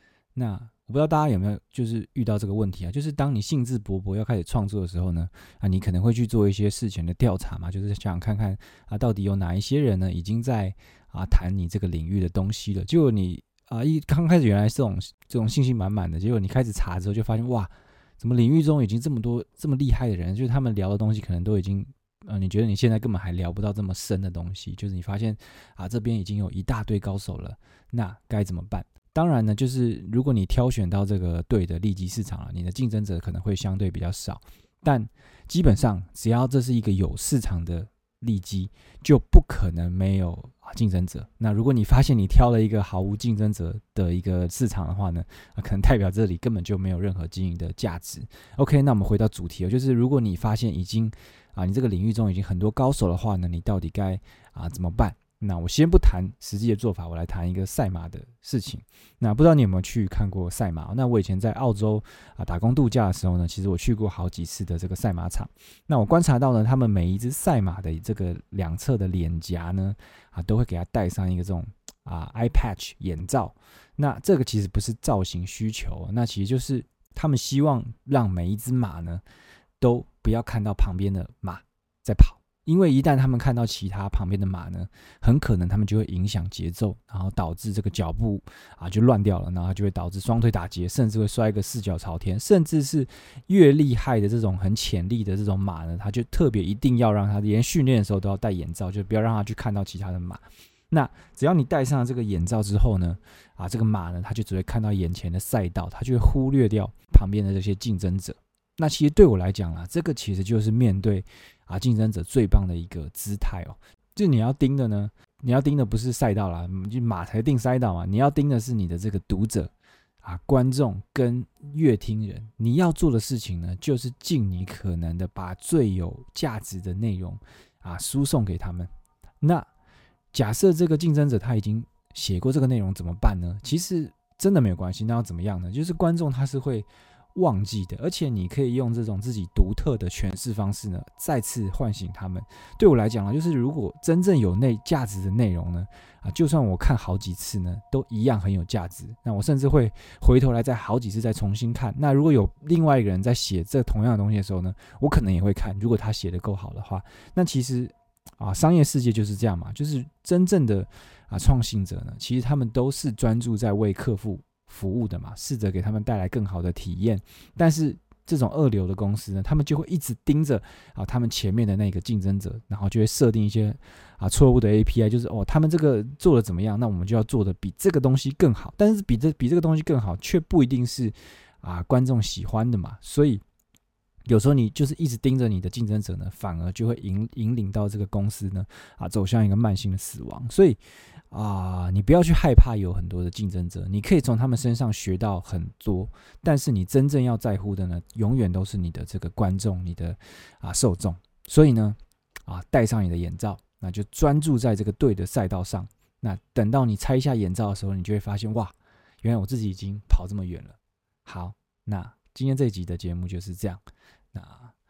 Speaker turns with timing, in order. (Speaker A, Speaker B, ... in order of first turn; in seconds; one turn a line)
Speaker A: 0.3-79.2
Speaker A: 79.8-119.7
Speaker A: 120.2-128.9
Speaker A: 129.4-129.7
Speaker A: 130.3-183.4
Speaker A: 184.3-190.8
Speaker A: 191.3-213.8
Speaker A: 214.3-214.7